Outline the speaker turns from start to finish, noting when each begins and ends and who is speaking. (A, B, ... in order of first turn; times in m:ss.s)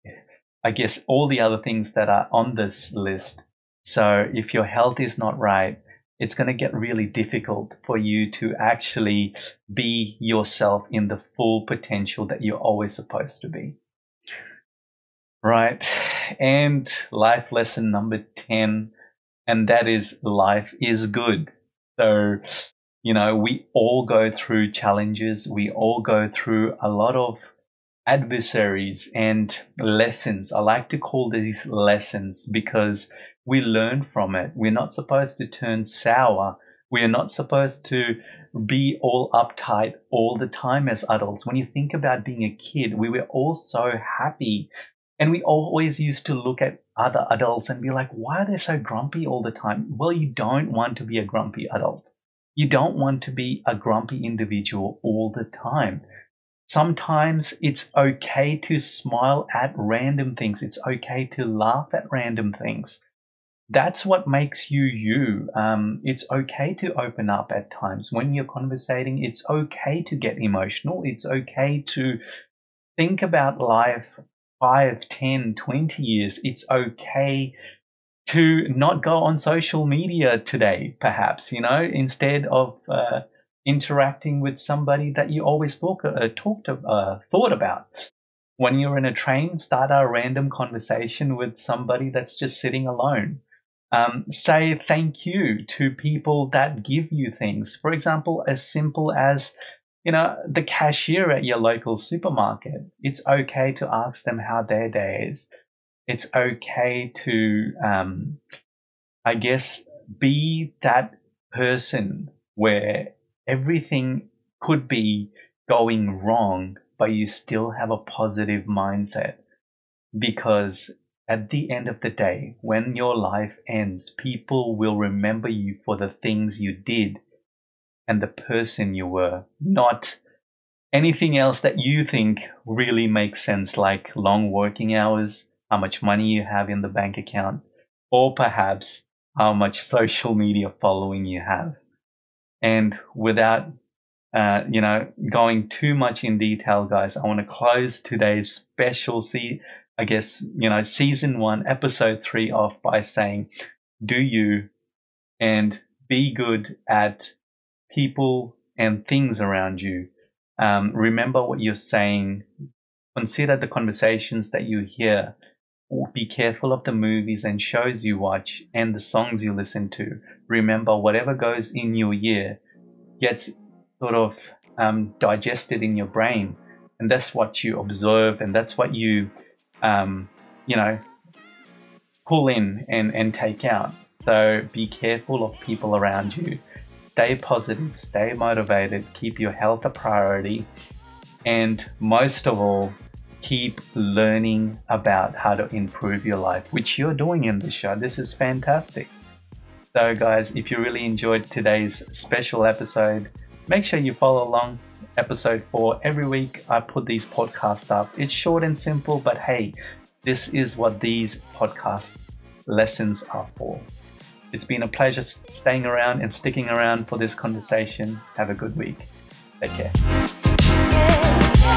0:00.6-0:13.8 A
0:15.4-0:18.9 A
0:19.5-0:22.4 A
0:23.0-0:27.4 A
0:28.1-0:56.0 A
0:56.7-1:03.0 A
1:03.7-1:12.2 A
1:13.0-1:17.5 A
1:18.3-1:27.9 A
1:28.6-1:39.5 A
1:40.0-1:45.5 A
1:46.1-1:48.4 A
1:49.2-1:59.4 A
2:00.2-2:07.2 A
2:08.1-2:10.2 A
2:10.9-2:21.8 A
2:22.6-2:23.7 A
2:24.3-2:33.5 A
2:34.0-2:34.7 A
2:35.4-2:37.3 A
2:37.9-2:42.5 A
2:43.2-2:45.3 A
2:45.9-2:52.6 A
2:53.2-2:59.3 A
2:59.8-3:01.0 A
3:02.3-3:10.7 A
3:11.4-3:19.1 A
3:19.9-3:33.9 A
3:34.5-3:39.1 A
3:39.6-3:39.9 A